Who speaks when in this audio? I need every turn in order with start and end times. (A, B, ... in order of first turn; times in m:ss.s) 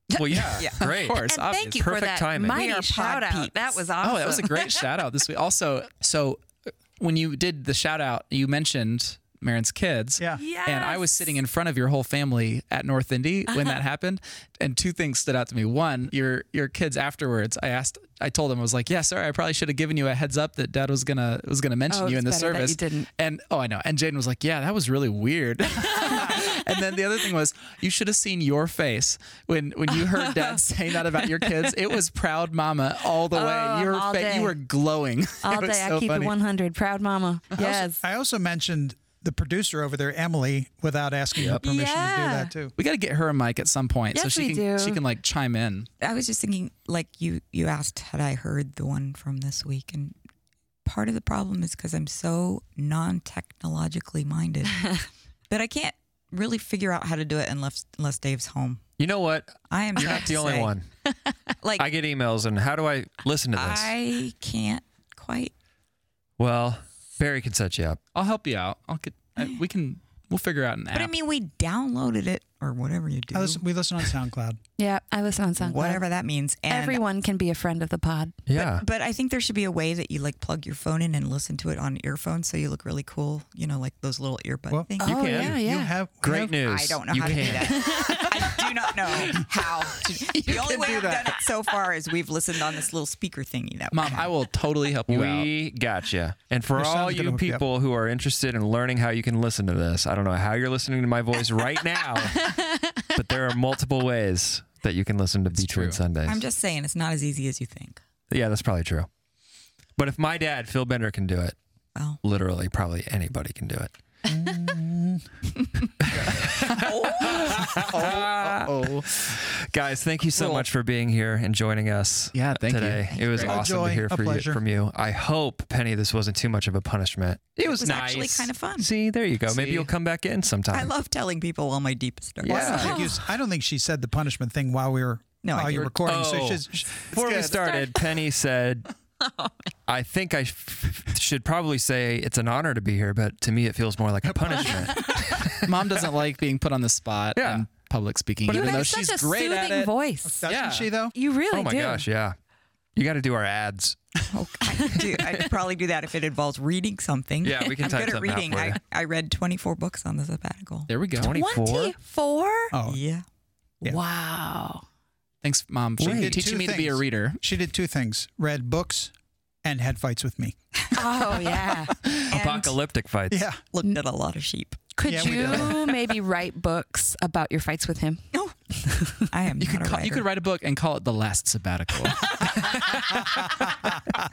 0:00.1-0:04.8 A
0:00.1-0:01.2 B
0:00.6-0:01.8 C
0:01.8-0:02.6 B
0:02.4-0:03.8 D
0:04.0-0:36.3 C
0:10.4-0:11.3 A
0:21.9-0:23.1 A
0:25.8-0:26.6 A
0:29.9-0:30.6 A
0:31.1-0:31.7 A
0:33.3-0:34.5 A
0:35.4-0:38.0 A
0:37.6-0:42.7 E
0:41.4-0:42.5 A
0:42.8-0:45.9 C
0:44.1-0:45.0 A
0:46.0-0:50.1 D
0:50.8-0:55.0 D
0:55.5-0:58.9 D
0:59.0-1:00.9 B
0:59.7-1:00.7 D
1:01.6-1:01.9 D
1:01.7-1:03.9 B
1:03.5-1:05.5 D
1:06.4-1:08.0 B
1:08.1-1:11.1 C
1:10.9-1:13.6 D
1:13.3-1:14.6 E
1:14.8-1:16.0 A
1:15.6-1:17.0 D
1:16.7-1:18.4 A
1:18.5-1:18.8 B
1:18.5-1:25.4 D
1:24.7-1:26.6 E
1:25.0-1:25.6 B
1:25.0-1:25.9 A
1:26.2-1:27.9 B
1:26.6-1:34.2 D
1:27.7-1:28.6 A
1:30.1-1:31.4 C
1:33.9-1:35.5 C
1:35.1-1:46.4 B
1:36.7-1:37.6 E
1:42.2-1:43.1 A
1:45.5-1:46.0 C
1:46.2-1:48.0 D
1:48.3-1:49.1 B
1:50.0-1:51.6 B
1:51.9-1:52.2 D
1:52.2-1:53.9 B
1:54.2-1:55.2 E
1:56.0-2:10.9 B
1:56.1-1:56.4 E
1:56.6-1:59.3 C
2:00.4-2:00.6 C
2:02.3-2:03.6 C
2:03.3-2:04.6 E
2:07.6-2:08.9 D
2:09.5-2:09.9 C
2:10.7-2:13.1 D
2:12.4-2:13.1 B
2:12.4-2:16.9 E
2:12.7-2:13.2 A
2:15.4-2:16.1 D
2:16.0-2:18.9 B
2:17.1-2:17.6 C
2:19.9-2:26.0 B
2:24.4-2:24.8 E
2:25.6-2:29.9 C
2:27.3-2:27.6 B
2:28.5-2:30.4 A
2:30.2-2:31.1 E
2:30.4-2:30.9 C
2:31.1-2:32.1 A
2:31.5-2:32.3 B
2:32.9-2:34.2 B
2:34.3-2:40.9 D
2:34.9-2:35.5 B
2:37.4-2:38.8 B
2:40.9-2:41.3 C
2:41.1-2:41.9 B
2:41.2-2:42.7 A
2:42.7-2:43.0 E
2:42.8-2:43.2 D
2:43.8-2:44.9 A
2:45.4-2:47.4 C
2:46.0-2:46.5 B
2:46.0-2:49.1 E
2:49.6-2:51.0 E
2:50.9-2:52.0 A
2:52.1-2:53.4 B
2:52.3-2:52.8 D
2:53.3-2:53.6 E
2:53.7-2:55.8 D
2:55.0-2:58.2 A
2:55.0-2:55.8 E
2:58.3-3:00.3 D
2:58.8-2:59.3 A
2:59.6-3:03.8 C
3:02.3-3:03.3 B
3:03.3-3:04.0 E